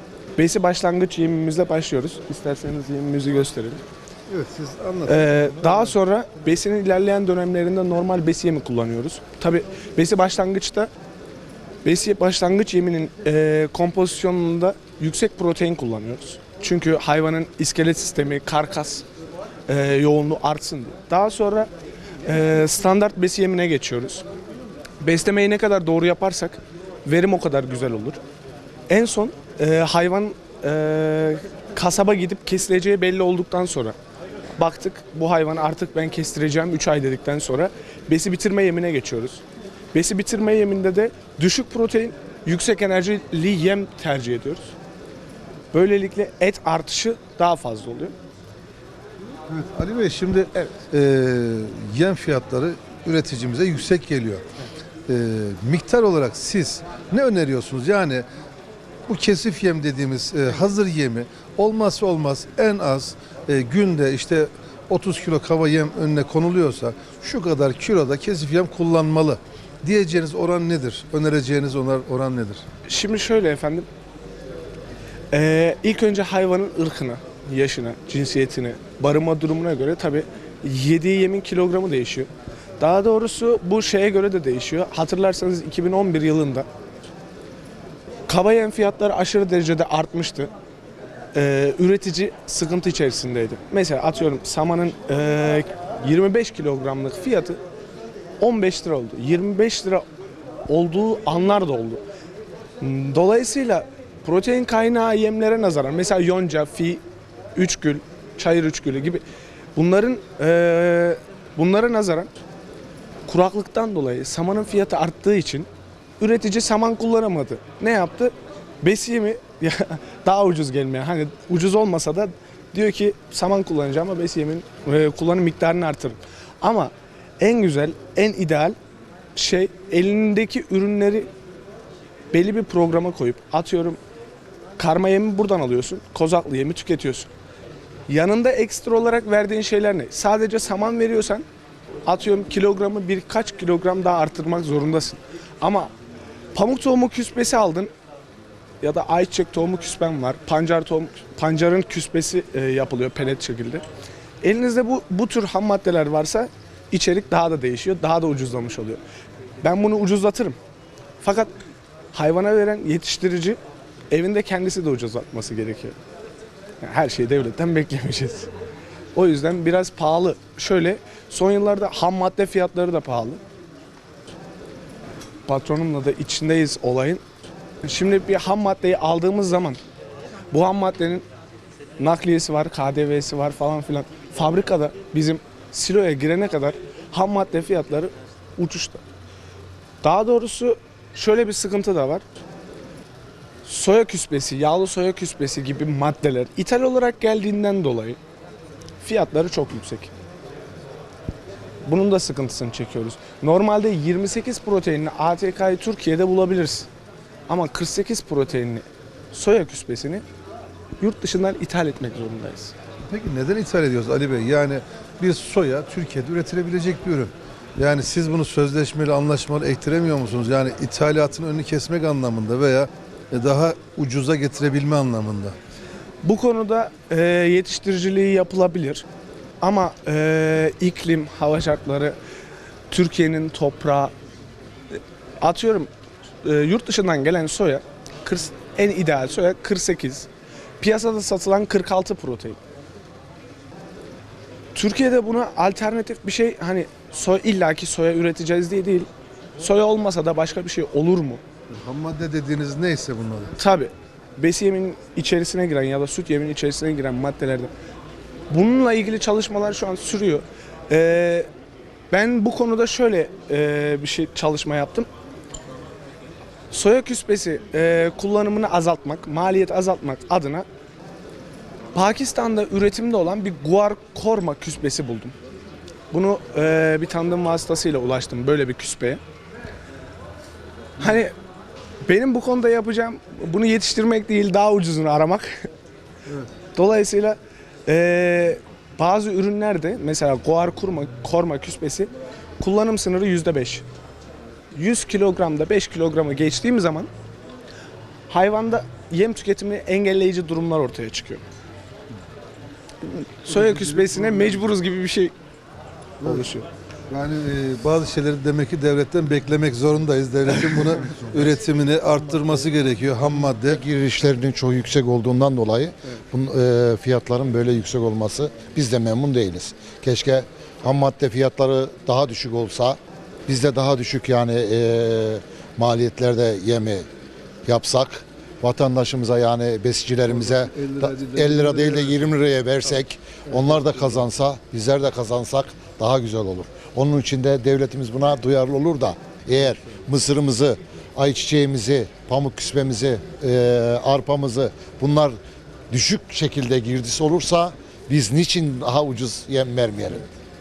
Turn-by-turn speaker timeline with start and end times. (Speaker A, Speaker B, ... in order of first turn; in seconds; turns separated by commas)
Speaker A: 0.4-3.8, Speaker B: 4.3-6.0, Speaker A: 5.0-10.9, Speaker A: 11.8-19.0, Speaker A: 19.7-21.7, Speaker A: 22.2-24.2, Speaker A: 25.0-28.2, Speaker A: 28.9-34.0, Speaker A: 34.6-44.7, Speaker A: 45.7-48.1, Speaker B: 49.5-54.4, Speaker B: 55.1-58.2, Speaker B: 59.1-72.6, Speaker A: 72.9-73.9, Speaker A: 75.3-86.7, Speaker A: 88.3-90.5, Speaker A: 91.3-97.6, Speaker A: 98.4-100.0, Speaker A: 100.7-102.0, Speaker A: 102.8-107.0, Speaker A: 107.5-109.2, Speaker A: 109.8-112.3, Speaker A: 113.3-115.7, Speaker A: 116.2-128.8, Speaker A: 129.3-131.3, Speaker A: 132.3-134.0, Speaker A: 134.8-137.3, Speaker A: 138.1-141.4, Speaker A: 142.1-145.9, Speaker A: 146.5-147.9, Speaker A: 148.8-153.8, Speaker A: 154.4-159.0, Speaker A: 159.6-160.6, Speaker A: 161.2-161.5, Speaker A: 162.1-163.6, Speaker A: 164.1-165.9, Speaker A: 166.8-168.5, Speaker A: 169.1-173.4, Speaker A: 175.5-177.2, Speaker A: 177.8-179.8, Speaker A: 180.5-181.2, Speaker A: 182.0-189.0, Speaker A: 190.0-192.2, Speaker A: 193.6-198.2, Speaker A: 199.0-200.1, Speaker A: 201.8-206.9, Speaker A: 207.5-210.2, Speaker A: 211.0-212.7, Speaker B: 213.0-225.6, Speaker A: 226.2-229.1, Speaker A: 229.6-232.2, Speaker A: 232.9-234.1, Speaker A: 235.4-235.9, Speaker A: 236.4-240.3, Speaker A: 240.8-242.6, Speaker A: 244.7-251.4, Speaker B: 251.7-253.5, Speaker A: 253.6-257.7, Speaker A: 258.5-261.5, Speaker A: 262.1-265.1, Speaker A: 266.7-270.6, Speaker A: 271.9-275.3, Speaker A: 276.1-279.2, Speaker A: 281.0-281.3, Speaker A: 282.0-285.7, Speaker B: 286.2-286.5, Speaker A: 286.8-293.8, Speaker A: 294.7-297.1, Speaker A: 298.3-301.4, Speaker A: 303.0-305.3, Speaker B: 303.5-304.7, Speaker B: 306.2-306.5, Speaker A: 306.2-306.7, Speaker B: 307.1-313.8, Speaker C: 311.0-311.4, Speaker C: 313.4-327.1, Speaker C: 327.6-345.4, Speaker B: 330.2-332.3, Speaker B: 333.5-334.3, Speaker B: 339.7-339.9, Speaker C: 345.9-350.3